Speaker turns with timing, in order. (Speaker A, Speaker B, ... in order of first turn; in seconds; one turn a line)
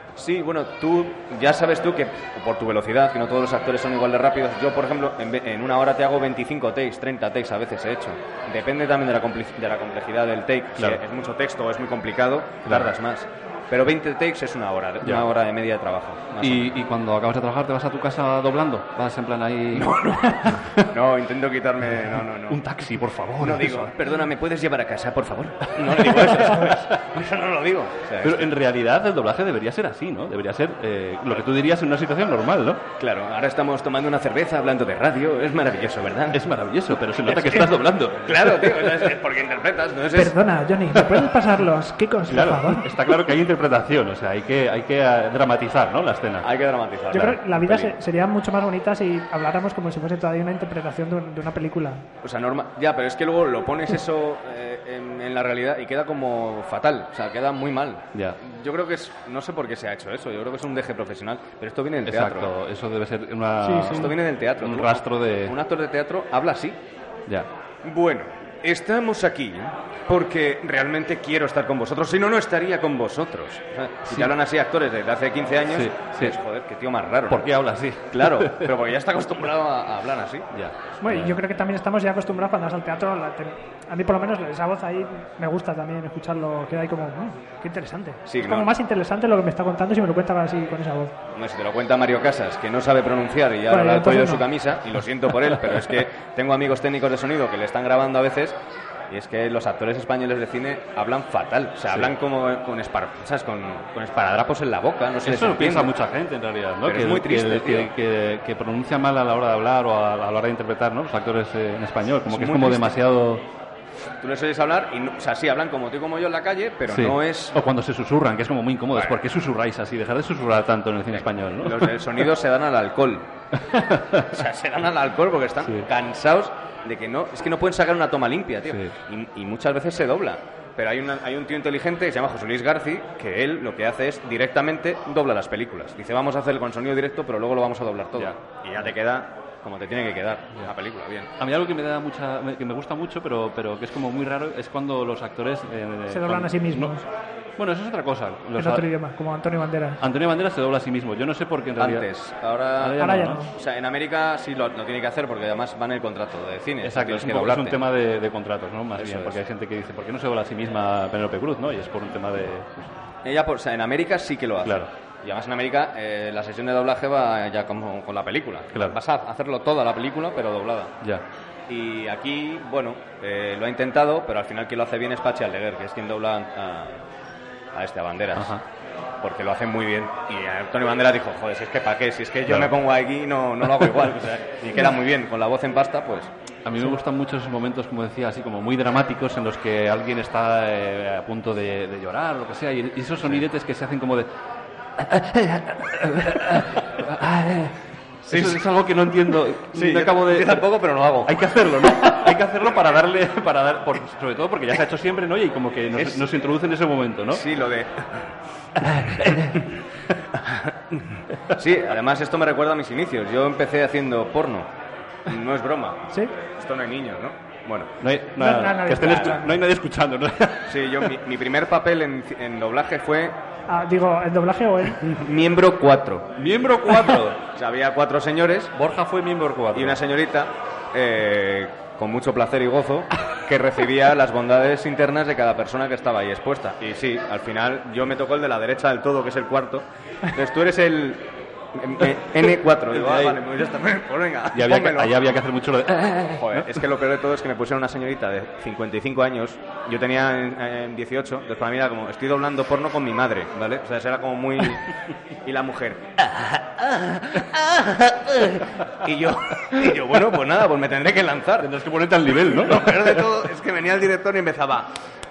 Speaker A: 0.1-16.8
Speaker B: 12.7-12.9
Speaker B: 15.0-15.3
Speaker B: 16.4-20.9
Speaker A: 19.7-22.6
Speaker B: 22.5-23.9
Speaker A: 23.4-28.5
Speaker B: 25.8-26.9
Speaker B: 28.2-32.8
Speaker A: 33.0-36.4
Speaker B: 36.3-39.1
Speaker A: 37.3-40.4
Speaker C: 40.1-42.9
Speaker B: 40.9-41.3
Speaker B: 42.3-46.5
Speaker A: 46.4-47.9
Speaker C: 47.1-52.0
Speaker A: 52.2-62.5
Speaker B: 62.0-65.5
Speaker C: 63.6-64.1
Speaker A: 63.8-66.8
Speaker A: 67.8-77.5
Speaker B: 75.7-76.4
Speaker B: 77.3-78.7
Speaker A: 78.1-80.5
Speaker B: 80.5-81.4
Speaker C: 81.0-91.1
Speaker A: 88.2-88.7
Speaker A: 91.3-98.5
Speaker C: 93.7-94.4
Speaker A: 99.1-105.9
Speaker B: 105.2-113.5
Speaker A: 106.8-107.9
Speaker A: 112.3-113.0
Speaker A: 114.2-117.6
Speaker B: 116.9-122.0
Speaker A: 118.9-119.2
Speaker A: 121.1-123.3
Speaker B: 123.5-124.3
Speaker A: 124.2-141.3
Speaker B: 128.7-128.9
Speaker B: 141.4-146.9
Speaker C: 146.1-147.1
Speaker B: 147.6-148.9
Speaker C: 148.6-150.0
Speaker B: 150.0-152.1
Speaker A: 151.8-157.8
Speaker B: 152.8-153.4
Speaker C: 153.0-153.5
Speaker B: 156.8-162.9
Speaker A: 159.0-159.4
Speaker A: 163.2-170.9
Speaker B: 164.6-164.9
Speaker A: 171.7-177.0
Speaker A: 177.7-178.6
Speaker B: 178.3-178.6
Speaker A: 179.2-186.3
Speaker B: 186.6-194.3
Speaker B: 195.0-200.7
Speaker A: 198.3-198.6
Speaker A: 199.7-202.2
Speaker B: 201.2-207.4
Speaker A: 205.9-206.2
Speaker A: 207.3-208.3
Speaker B: 208.8-210.1
Speaker A: 210.4-214.7
Speaker A: 215.2-218.0
Speaker B: 218.0-221.0
Speaker C: 218.4-219.6
Speaker A: 219.0-219.4
Speaker A: 220.7-223.4
Speaker C: 223.7-225.0
Speaker A: 225.0-226.3
Speaker B: 226.3-227.4
Speaker A: 227.5-228.8
Speaker B: 228.7-230.0
Speaker A: 229.7-245.4
Speaker B: 242.9-243.4
Speaker B: 244.5-246.8
Speaker A: 246.3-256.5
Speaker B: 256.3-258.7
Speaker A: 257.3-257.9
Speaker A: 258.9-261.7
Speaker B: 261.6-263.3
Speaker A: 262.3-264.9